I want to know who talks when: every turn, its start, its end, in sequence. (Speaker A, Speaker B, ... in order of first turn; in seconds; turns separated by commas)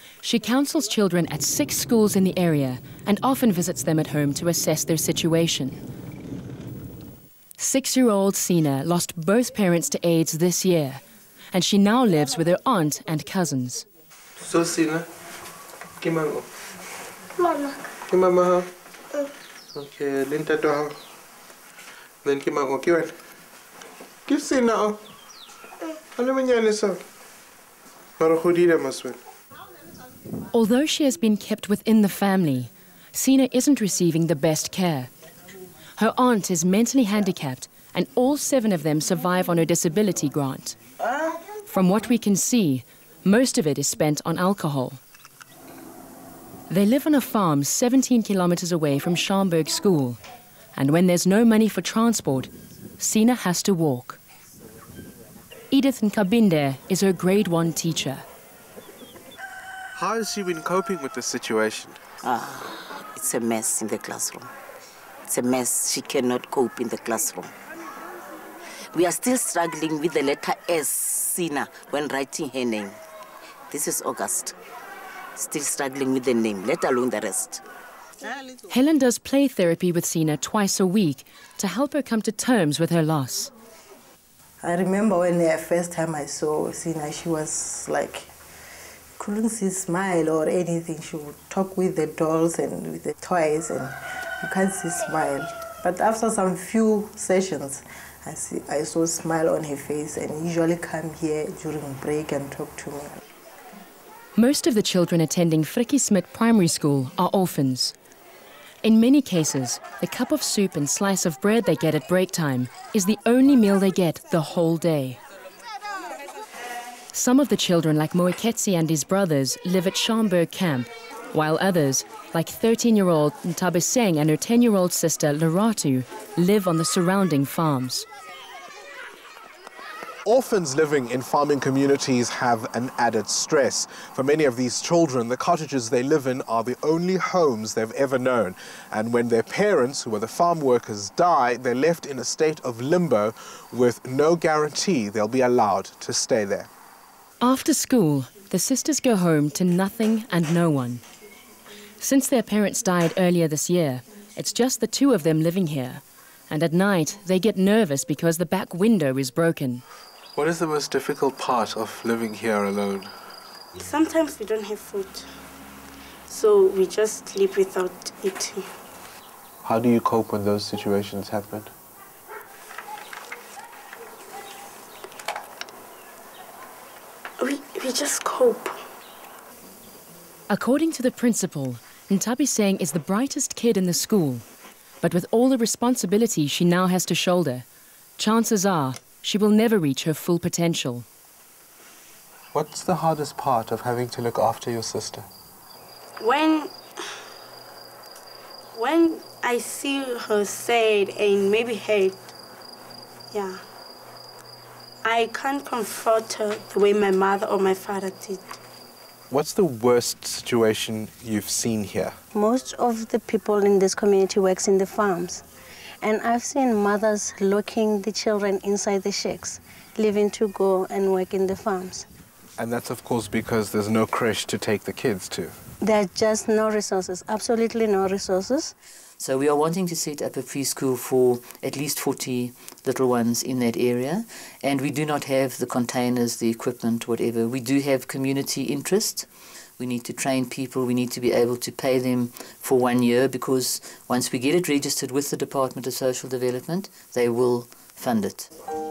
Speaker A: 0.2-5.8, Speaker A: 7.6-11.0, Speaker A: 11.5-13.9, Speaker B: 14.5-15.0, Speaker B: 16.0-16.4, Speaker C: 17.4-17.7, Speaker B: 18.1-18.6, Speaker B: 19.8-20.9, Speaker B: 22.2-23.0, Speaker B: 24.3-24.9, Speaker B: 26.2-26.9, Speaker B: 28.2-29.1, Speaker A: 30.5-35.1, Speaker A: 36.0-40.8, Speaker A: 41.7-45.0, Speaker A: 46.7-50.2, Speaker A: 50.8-54.2, Speaker A: 55.7-58.2, Speaker B: 59.9-62.0, Speaker D: 62.2-64.5, Speaker D: 65.3-67.5, Speaker D: 68.9-73.0, Speaker D: 73.7-74.5, Speaker D: 75.3-77.6, Speaker A: 78.7-83.5, Speaker E: 84.6-88.3, Speaker E: 89.2-103.2, Speaker A: 104.3-107.9, Speaker A: 108.8-115.2, Speaker A: 117.1-128.1, Speaker B: 130.2-146.7, Speaker A: 147.4-151.0, Speaker A: 152.0-159.8, Speaker B: 160.3-163.1, Speaker F: 163.8-165.3, Speaker F: 166.3-168.6, Speaker B: 169.6-171.7, Speaker F: 177.4-178.8, Speaker A: 180.5-184.4, Speaker A: 185.0-187.7, Speaker A: 188.2-191.1, Speaker B: 192.5-195.2, Speaker F: 196.2-197.0, Speaker F: 198.7-202.3, Speaker F: 203.3-203.6, Speaker F: 205.0-208.4, Speaker B: 209.3-212.1, Speaker C: 212.3-215.4, Speaker C: 216.0-222.1, Speaker B: 222.6-225.5, Speaker C: 225.8-228.7, Speaker G: 229.2-239.3, Speaker G: 239.8-248.5